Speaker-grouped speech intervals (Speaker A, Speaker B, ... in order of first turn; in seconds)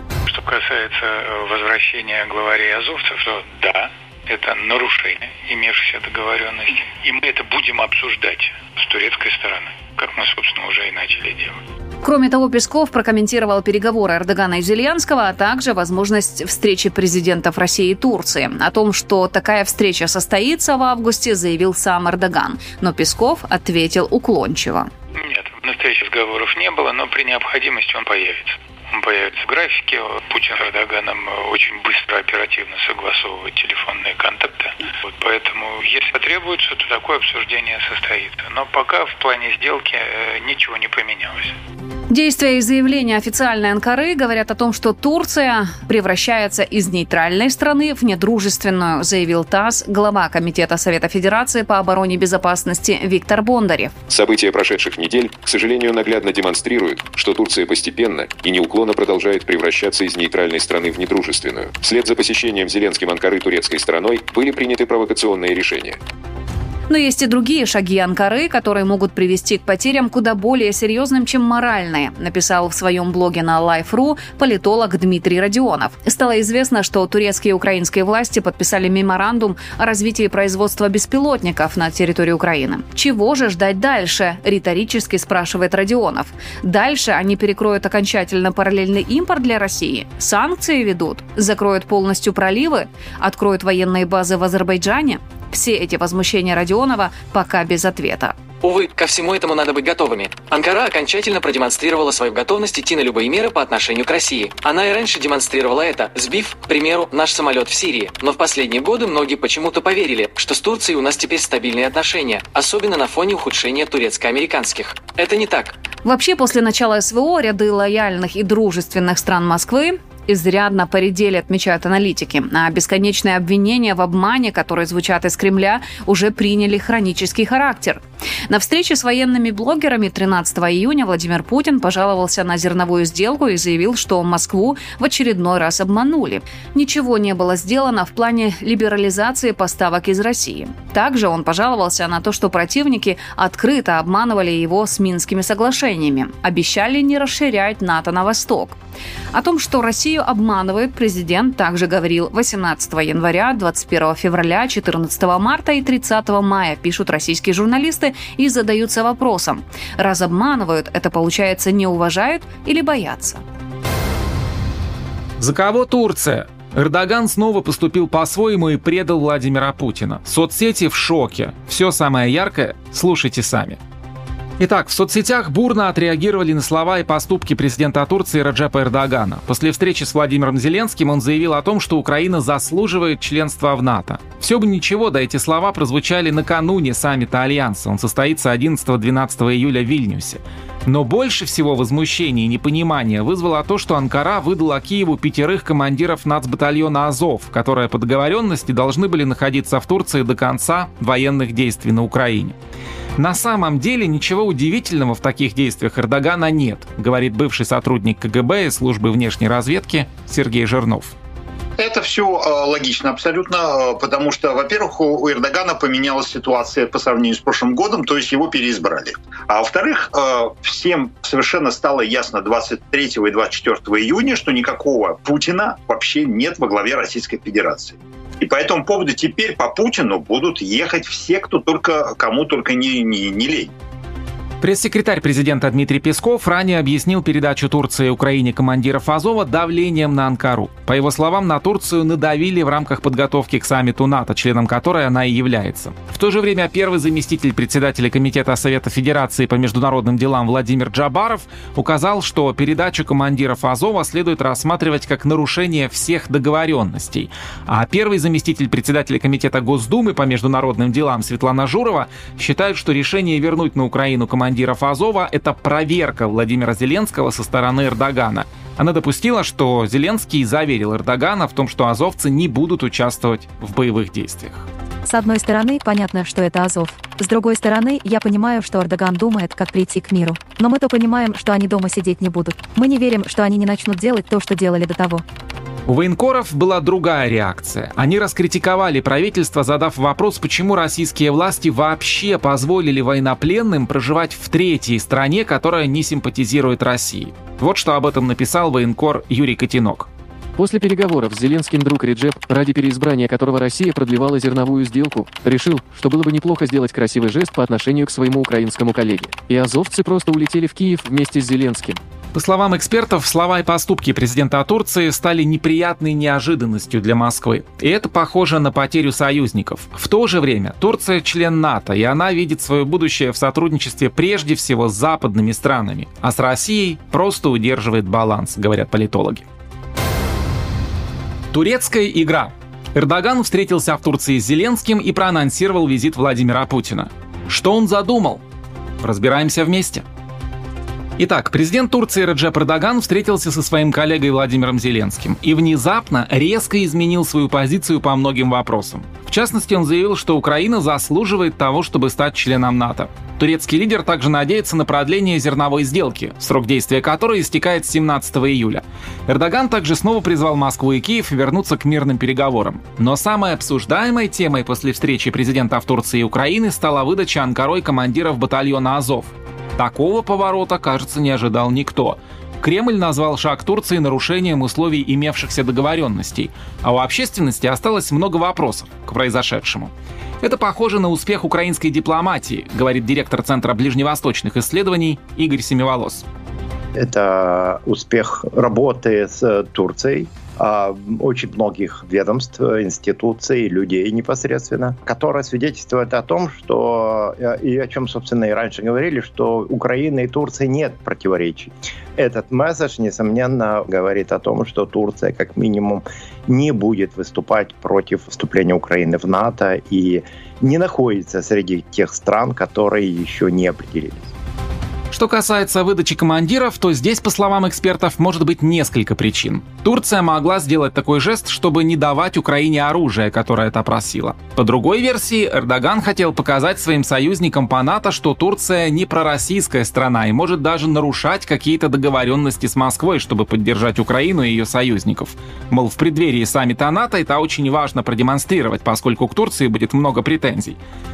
Speaker A: 0.4-11.5, 25.7-28.4, 29.0-34.6, 35.2-39.9, 40.5-41.4
Speaker B: 12.0-24.9, 42.1-53.9, 66.9-98.3, 116.0-148.8, 149.3-163.4
Speaker C: 54.1-66.0
Speaker D: 98.6-115.8
Speaker E: 165.4-173.8, 174.6-202.6, 203.2-211.2, 234.6-274.7, 285.9-300.1, 312.3-329.4, 331.5-338.4, 339.0-340.0, 341.2-386.2, 415.1-440.8
Speaker F: 211.8-233.7
Speaker G: 275.1-285.2
Speaker H: 300.6-312.0
Speaker I: 387.0-414.3